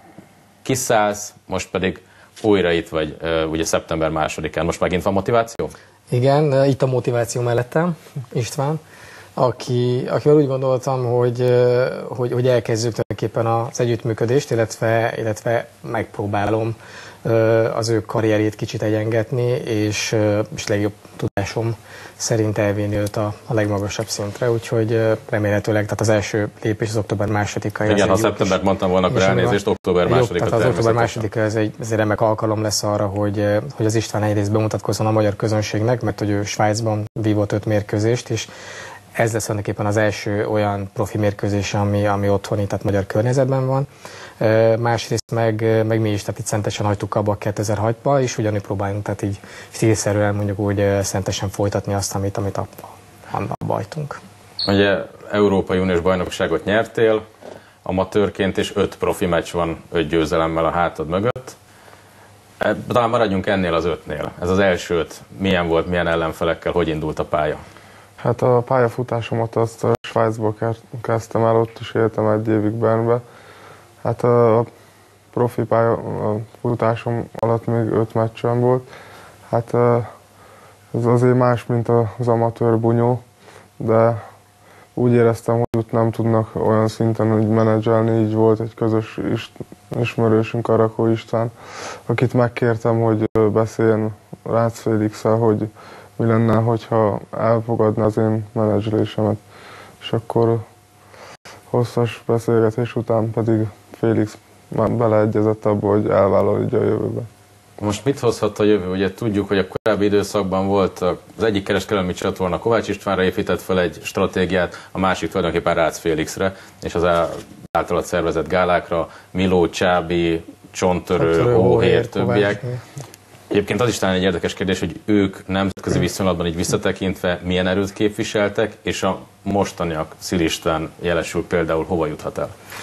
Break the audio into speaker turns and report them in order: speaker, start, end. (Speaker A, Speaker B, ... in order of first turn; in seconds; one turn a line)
Speaker A: 0.6-5.7
Speaker B: 6.1-8.8
Speaker B: 9.3-38.5
Speaker A: 27.8-31.3
Speaker B: 39.1-43.9
Speaker B: 44.4-54.2
Speaker A: 54.6-57.2
Speaker A: 57.8-61.5
Speaker A: 62.6-67.6
Speaker C: 68.2-73.2
Speaker C: 74.0-74.7
Speaker C: 75.3-78.9
Speaker C: 79.5-80.1
Speaker C: 80.9-83.2
Speaker C: 83.8-84.2
Speaker C: 85.0-91.5
Speaker C: 92.1-99.4
Speaker C: 100.0-100.6
Speaker C: 101.7-107.3
Speaker A: 107.8-122.6
Speaker B: 121.2-122.8
Speaker A: 123.5-132.5